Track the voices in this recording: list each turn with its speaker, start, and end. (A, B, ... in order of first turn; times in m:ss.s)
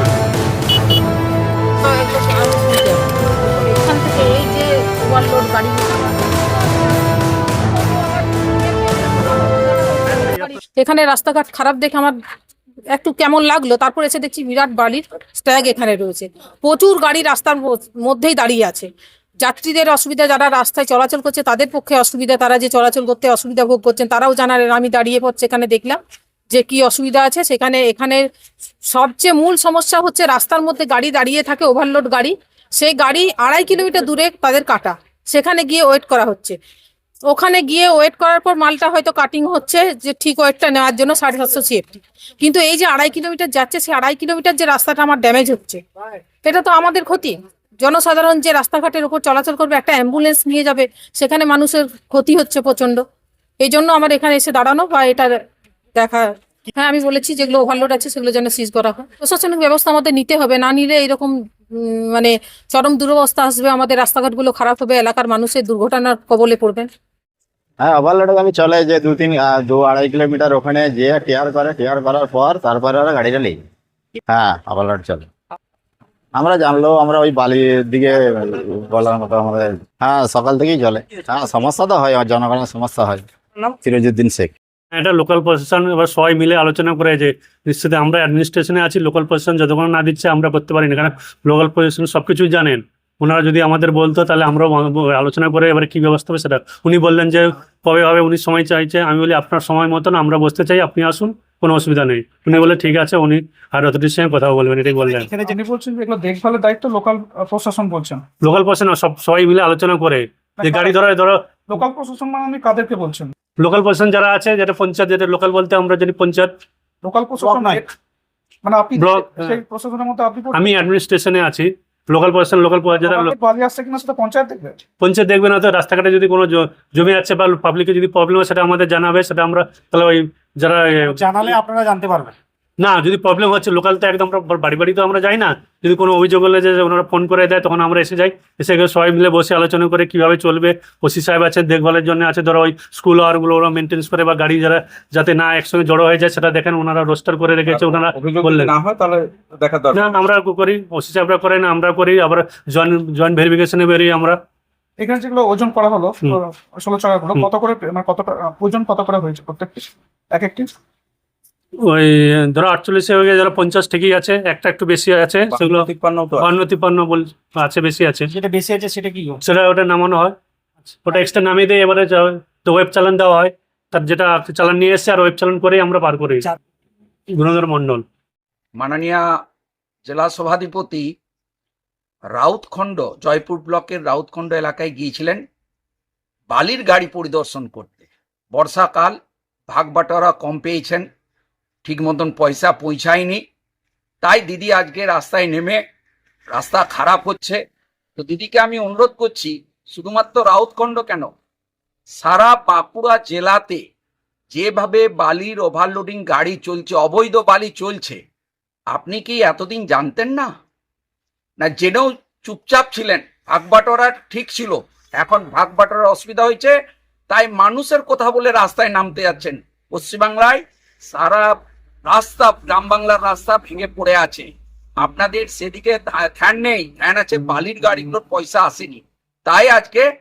0:01.8-0:06.8 A
0:07.8-0:12.2 A
0:12.9-0:18.9 A
0:19.4-0:26.0 A
0:26.5-0:28.2 A
0:28.9-0:36.6 A
0:37.3-0:45.8 A
0:46.4-0:53.0 A
0:53.6-0:55.4 A
0:56.0-1:06.9 A
1:07.8-1:13.6 B
1:14.3-1:15.3 B
1:16.4-1:24.5 B
1:24.9-1:45.3 C
1:45.2-1:45.5 D
1:45.4-1:48.2 E
1:48.4-1:51.4 C
1:50.6-1:51.0 E
1:51.7-1:53.3 E
1:53.6-1:56.5 C
1:57.0-1:57.9 E
1:58.6-2:00.8 E
1:59.0-1:59.6 C
2:00.5-2:03.3 C
2:03.0-2:04.8 E
2:05.0-2:11.6 C
2:11.1-2:12.3 D
2:12.8-2:28.8 C
2:28.5-2:29.8 F
2:28.7-2:29.0 G
2:29.9-2:34.4 C
2:35.0-2:40.7 E
2:41.9-2:48.3 C
2:45.6-2:46.3 F
2:48.4-2:49.4 D
2:49.4-2:50.4 C
2:51.0-2:56.5 C
2:57.4-2:58.0 C
2:58.8-2:59.2 G
3:00.1-3:01.1 G
3:02.3-3:05.4 G
3:06.5-3:09.2 G
3:09.7-3:11.1 G
3:11.8-3:13.4 G
3:14.2-3:15.8 G
3:16.5-3:17.6 G
3:18.2-3:21.3 G
3:22.1-3:23.8 G
3:24.5-3:28.2 G
3:28.9-3:30.5 G
3:31.6-3:36.8 G
3:37.3-3:50.1 G